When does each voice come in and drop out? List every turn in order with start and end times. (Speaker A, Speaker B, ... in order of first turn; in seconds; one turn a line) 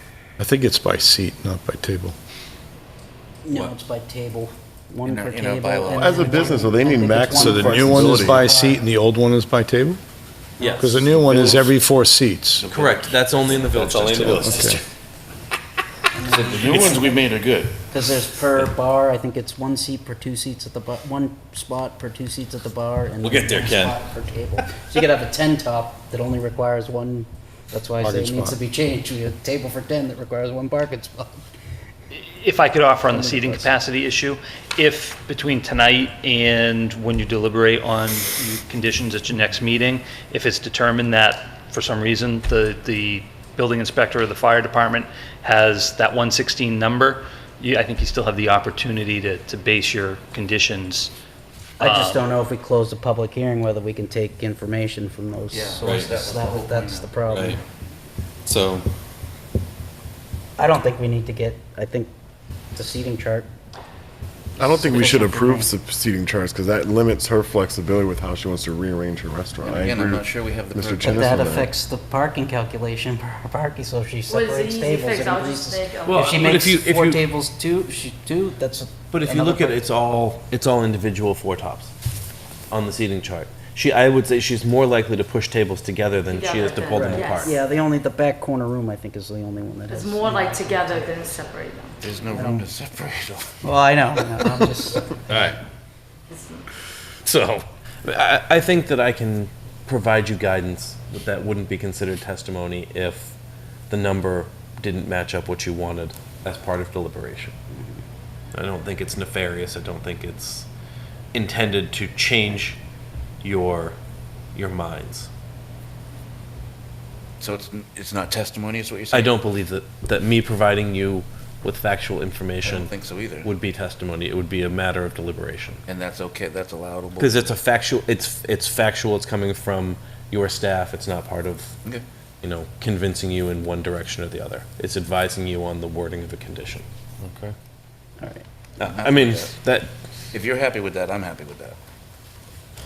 Speaker A: 0.4-2.1
Speaker B: 3.4-8.8
Speaker C: 5.1-6.6
Speaker D: 6.0-8.4
Speaker A: 7.3-10.0
Speaker E: 10.6-11.6
Speaker A: 10.8-12.7
Speaker C: 12.6-13.2
Speaker E: 12.7-14.5
Speaker F: 13.7-14.8
Speaker A: 14.1-14.8
Speaker B: 16.1-31.4
Speaker C: 16.3-17.7
Speaker F: 23.2-24.0
Speaker A: 28.0-28.6
Speaker G: 32.1-51.1
Speaker B: 33.1-33.8
Speaker G: 51.8-52.2
Speaker B: 51.8-57.6
Speaker C: 55.5-57.1
Speaker F: 55.8-56.2
Speaker F: 57.3-57.6
Speaker F: 58.5-58.9
Speaker B: 60.6-62.1
Speaker B: 62.8-63.5
Speaker B: 64.6-65.7
Speaker D: 64.6-71.7
Speaker C: 69.6-71.6
Speaker B: 71.0-79.8
Speaker H: 74.3-76.7
Speaker E: 76.0-77.2
Speaker E: 79.1-81.9
Speaker E: 82.7-87.5
Speaker H: 86.3-87.6
Speaker B: 86.9-91.4
Speaker H: 89.9-92.0
Speaker C: 92.0-93.5
Speaker B: 92.3-92.7
Speaker B: 93.6-95.5
Speaker E: 95.3-95.6
Speaker H: 96.3-96.6
Speaker E: 97.2-103.3
Speaker E: 103.9-107.5
Speaker E: 108.5-110.7
Speaker E: 111.3-112.8
Speaker E: 113.4-114.0
Speaker E: 114.5-115.3
Speaker C: 117.4-119.3
Speaker E: 119.1-125.8
Speaker C: 122.6-123.5
Speaker C: 125.9-127.5
Speaker E: 127.2-131.8
Speaker E: 132.4-136.8
Speaker E: 138.8-139.9
Speaker C: 138.9-139.5
Speaker C: 140.3-141.8